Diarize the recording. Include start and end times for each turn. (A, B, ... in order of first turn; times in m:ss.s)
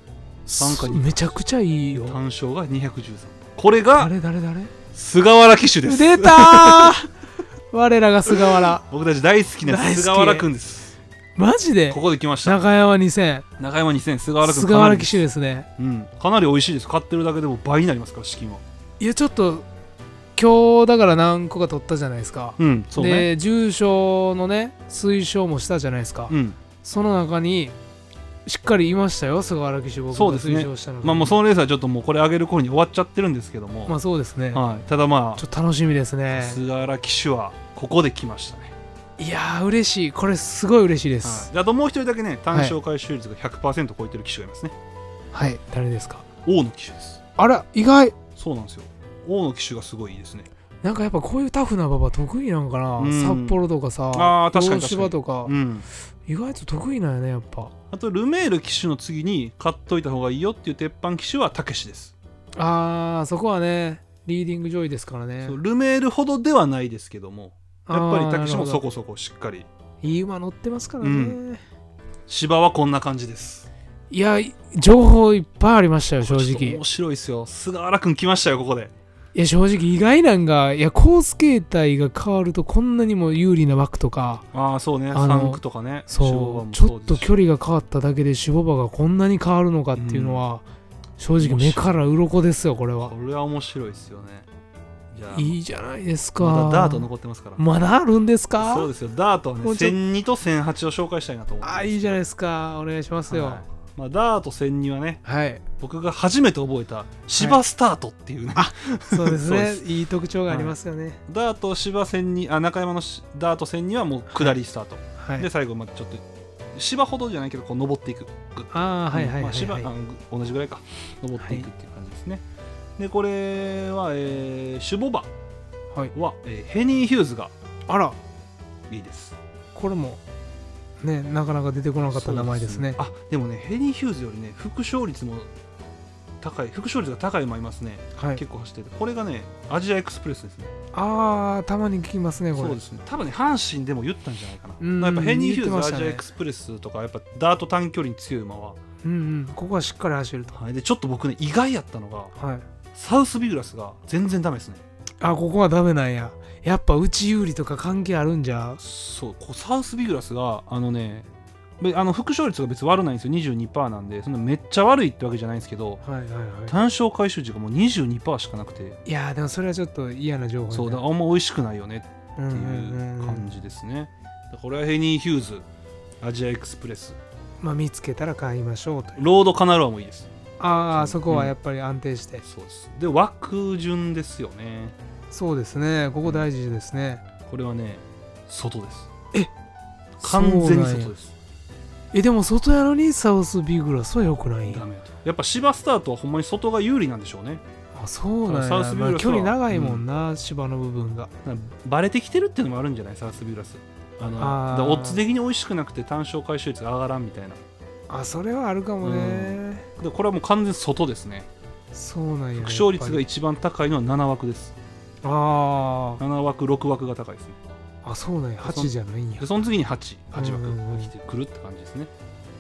0:00.5-0:02.2 A
0:00.5-0:01.1 B
0:02.0-0:04.1 B
0:04.0-0:04.7 A
0:04.9-0:07.0 B
0:05.8-0:07.1 A
0:07.7-0:08.8 A
0:08.3-0:11.0 B
0:09.6-0:10.5 A
0:11.4-0:13.5 A
0:11.9-0:12.6 B
0:13.6-0:15.2 B
0:14.4-0:15.7 A
0:15.8-0:18.6 B
0:19.0-0:19.7 A
0:20.4-0:27.8 A
0:22.6-0:23.3 B
0:26.3-0:26.6 B
0:28.5-0:31.4 A
0:30.1-0:34.0 B
0:33.9-0:34.6 A
0:34.5-0:35.4 B
0:35.4-0:36.6 A
0:36.3-0:38.7 B
0:39.2-0:41.5 A
0:41.2-0:44.8 B
0:45.3-0:46.2 A
0:46.4-0:47.2 B
0:47.4-0:48.2 A
0:48.4-0:50.5 B
0:50.8-0:55.5 A
0:53.0-0:53.6 B
0:54.1-0:55.9 B
0:56.3-0:57.7 A
0:57.9-1:02.1 B
1:02.6-1:05.6 A
1:05.4-1:09.7 B
1:07.9-1:08.8 A
1:10.0-1:11.6 A
1:11.0-1:11.4 B
1:12.3-1:13.7 B
1:14.1-1:16.8 A
1:16.2-1:18.9 B
1:19.3-1:24.4 A
1:24.5-1:27.3 B
1:25.1-1:30.6 A
1:29.9-1:30.4 B
1:31.2-1:33.1 A
1:31.4-1:31.9 B
1:33.0-1:34.5 B
1:35.1-1:35.6 B
1:35.3-1:38.9 A
1:36.4-1:37.6 B
1:38.6-1:42.2 B
1:39.6-1:40.0 A
1:41.6-1:43.6 A
1:43.3-1:45.2 B
1:45.2-1:45.6 A
1:45.8-1:49.8 B
1:48.6-1:51.2 A
1:50.5-1:50.8 B
1:51.3-1:56.2 B
1:55.2-1:55.5 A
1:56.7-2:02.4 B
1:58.7-1:59.9 A
2:01.4-2:01.7 A
2:03.0-2:05.3 B
2:06.1-2:07.5 B
2:07.9-2:08.2 A
2:08.9-2:09.4 B
2:09.8-2:10.2 A
2:11.0-2:13.0 A
2:12.1-2:15.5 B
2:16.4-2:20.7 B
2:18.2-2:18.4 A
2:20.9-2:22.8 A
2:22.5-2:28.8 B
2:24.8-2:26.2 A
2:29.0-2:30.6 A
2:30.5-2:32.3 B
2:32.4-2:32.6 A
2:33.0-2:34.8 B
2:35.2-2:38.8 A
2:38.8-2:41.3 B
2:41.8-2:46.0 B
2:46.0-2:46.8 A
2:46.7-2:49.0 B
2:49.0-2:51.0 A
2:50.7-2:55.6 B
2:52.4-2:53.5 A
2:56.2-2:57.2 B
2:57.6-2:59.2 A
2:59.2-3:00.3 B
3:00.6-3:02.4 A
3:00.9-3:01.5 B
3:02.4-3:05.0 B
3:05.3-3:07.2 A
3:07.5-3:09.1 B
3:10.2-3:11.3 B
3:10.2-3:11.1 A
3:12.1-3:14.8 A
3:14.7-3:17.6 B
3:18.0-3:21.3 A
3:18.5-3:20.0 B
3:21.4-3:27.6 B
3:24.4-3:25.2 A
3:28.1-3:29.9 A
3:29.0-3:31.5 B
3:31.9-3:33.2 A
3:32.6-3:34.8 B
3:35.2-3:36.2 A
3:36.2-3:37.6 B
3:38.0-3:39.5 A
3:38.6-3:42.1 B
3:40.3-3:41.1 A